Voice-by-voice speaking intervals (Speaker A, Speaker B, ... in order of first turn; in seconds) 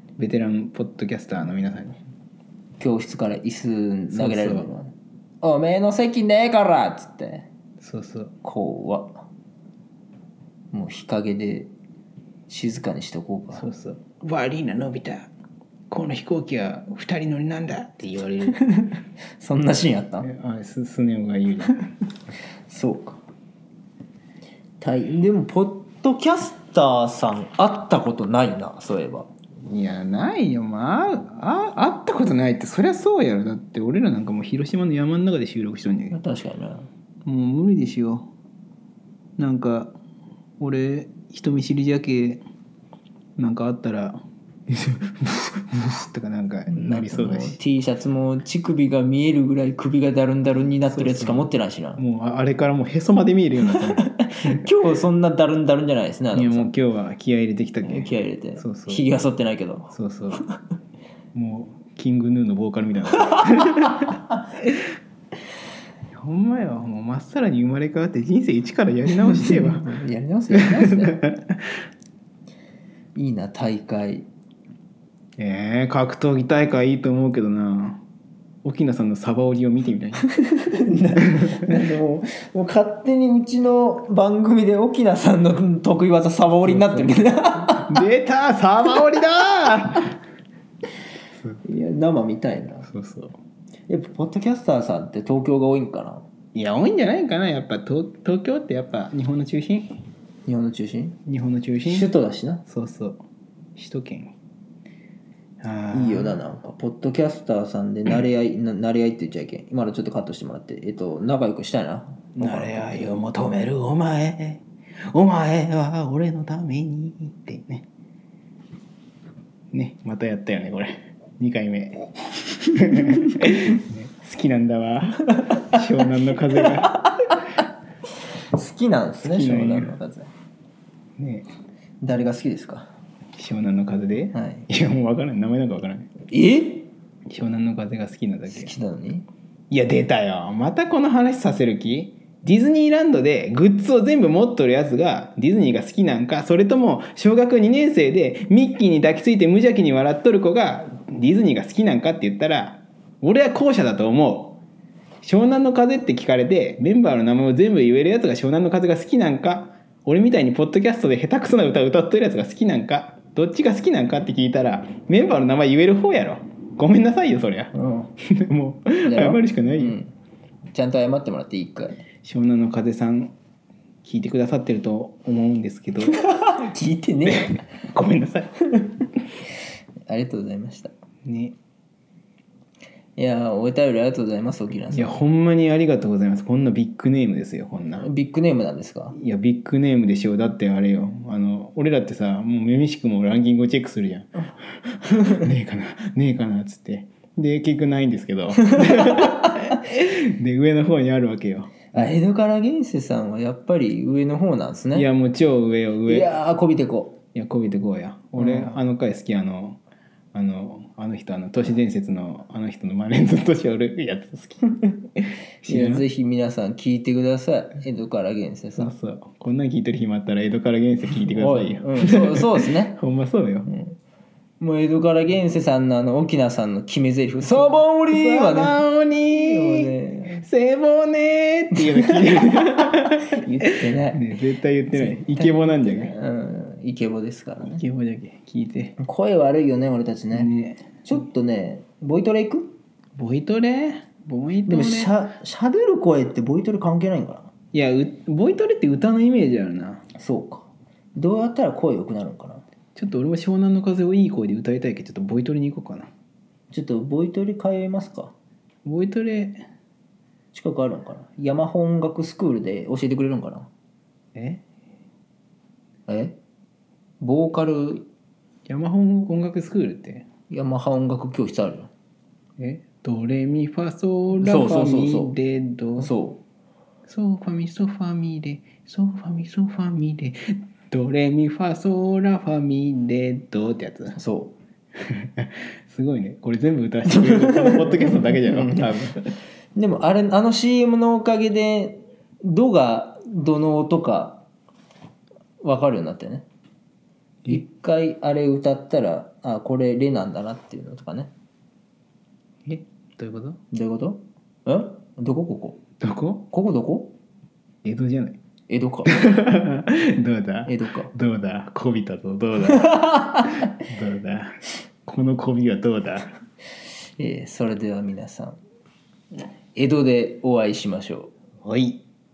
Speaker A: 0.2-2.0, 4.1-4.7, 7.8-8.3, 13.5-15.3, 15.9-18.6, 20.2-21.9, 29.6-36.2, 37.2-38.3, 39.4-39.9, 40.6-42.4, 43.4-47.6, 50.9-54.7, 56.3-59.1, 59.9-60.4, 61.3-64.2, 66.1-69.9, 70.5-71.6, 75.4-78.0, 78.6-80.3, 81.2-81.5, 86.6-87.1, 87.7-90.1, 92.8-93.4, 96.5-99.9, 101.3-102.1, 102.7-103.2, 103.8-104.3, 105.6-106.4, 112.3-117.9, 119.7-127.0, 129.2-130.0, 131.2-131.5, 133.3-136.1, 137.3-138.7, 139.7-154.6, 155.2-167.7, 168.2-170.0, 172.2-173.3, 174.0-176.2, 177.2-178.5, 181.2-181.6, 184.9-188.1, 189.1-202.1, 204.9-206.4, 207.3-209.8, 210.3-216.1, 218.8-223.7, 227.4-233.4, 234.1-236.2, 237.6-239.0, 240.3-241.0, 243.2-245.1, 247.7-250.1, 252.9-256.1, 258.9-259.6, 264.4-264.6, 268.7-270.3, 272.6-276.1, 277.1-284.2, 285.1-289.4, 302.7-303.6, 306.0-306.5, 307.8-308.4, 309.1-316.3, 321.6-322.0
Speaker B: 2.8-7.5, 8.4-9.2, 10.7-11.7, 12.5-13.7, 18.5-18.9, 19.4-20.3, 22.7-23.2, 24.8-29.3, 36.1-36.9, 46.7-52.0, 53.6-56.7, 57.9-59.9, 69.3-71.2, 73.2-74.3, 80.2-88.0, 91.7-92.9, 93.9-96.2, 100.5-101.2, 101.8-102.6, 105.9-113.1, 128.5-130.3, 132.0-132.9, 134.3-134.7, 136.3-136.9, 138.5-139.3, 167.7-168.1, 169.1-170.1, 170.7-172.0, 176.1-177.6, 180.1-180.9, 183.2-185.2, 188.0-189.2, 195.1-195.5, 198.8-199.4, 201.9-205.1, 206.1-207.2, 208.4-208.8, 215.7-218.9, 221.3-223.0, 223.7-223.9, 224.6-228.8, 229.3-230.4, 231.8-234.2, 234.9-237.8, 239.0-240.5, 241.1-242.8, 244.7-247.5, 250.2-252.7, 256.7-258.3, 260.5-263.7, 266.1-266.4, 267.2-268.1, 270.5-271.9, 274.4-275.4, 276.0-276.4, 284.2-284.6, 287.1-289.1, 289.8-294.4, 295.6-296.4, 297.5-301.3, 303.7-305.8, 306.5-307.1, 308.7-309.3, 310.7-311.1, 312.7-313.5, 317.2-318.6, 319.8-321.3